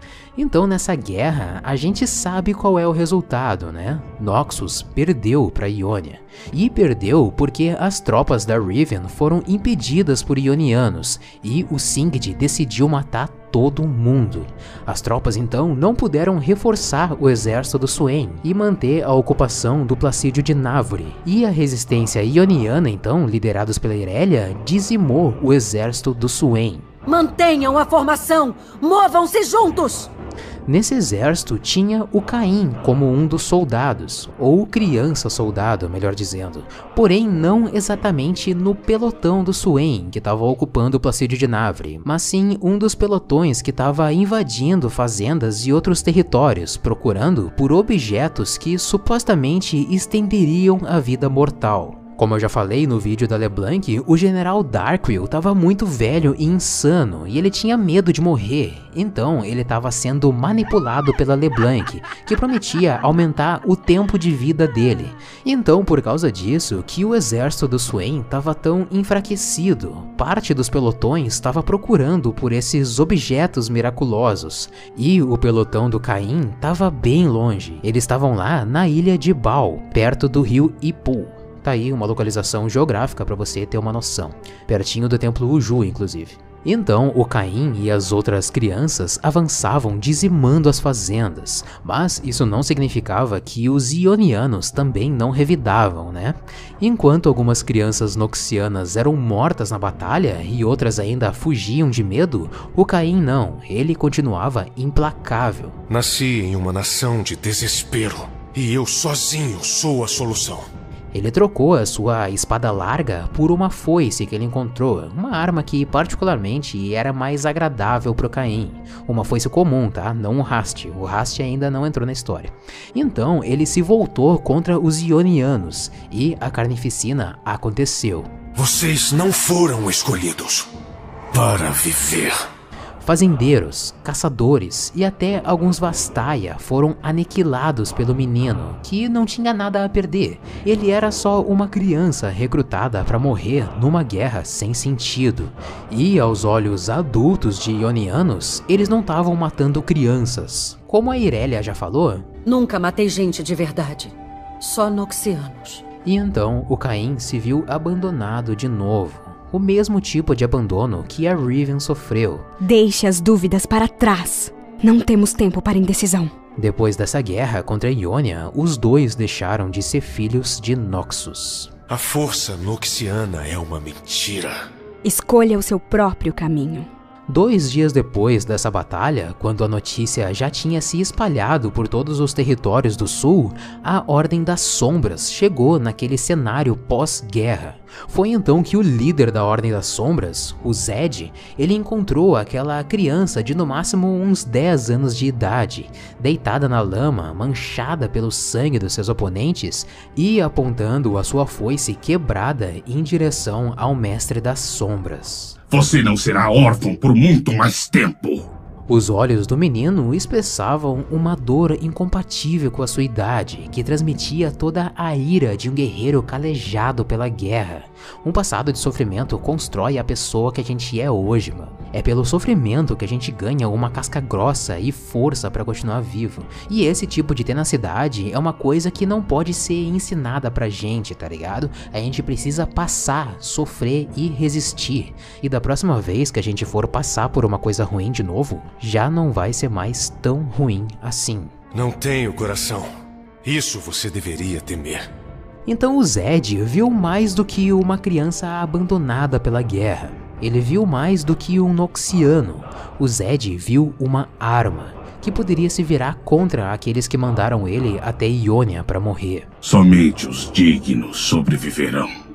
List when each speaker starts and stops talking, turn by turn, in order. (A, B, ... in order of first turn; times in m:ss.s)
0:00.4-0:26.9 A
0:27.1-0:30.1 B
0:30.7-1:45.8 A
1:45.9-1:50.7 C
1:51.1-2:08.3 A
2:08.6-2:10.7 C
2:11.3-2:12.4 C
2:13.0-2:32.3 A
2:32.5-2:35.8 B
2:36.0-2:42.5 A
2:42.6-2:46.3 D
2:46.6-2:51.7 A
2:51.9-2:54.7 C
2:55.0-2:56.9 D
2:57.3-3:25.6 A
3:25.7-3:28.5 E
3:28.9-4:01.5 A
4:01.7-4:02.9 C
4:03.4-4:05.1 C
4:05.7-4:19.5 A
4:19.6-4:22.1 E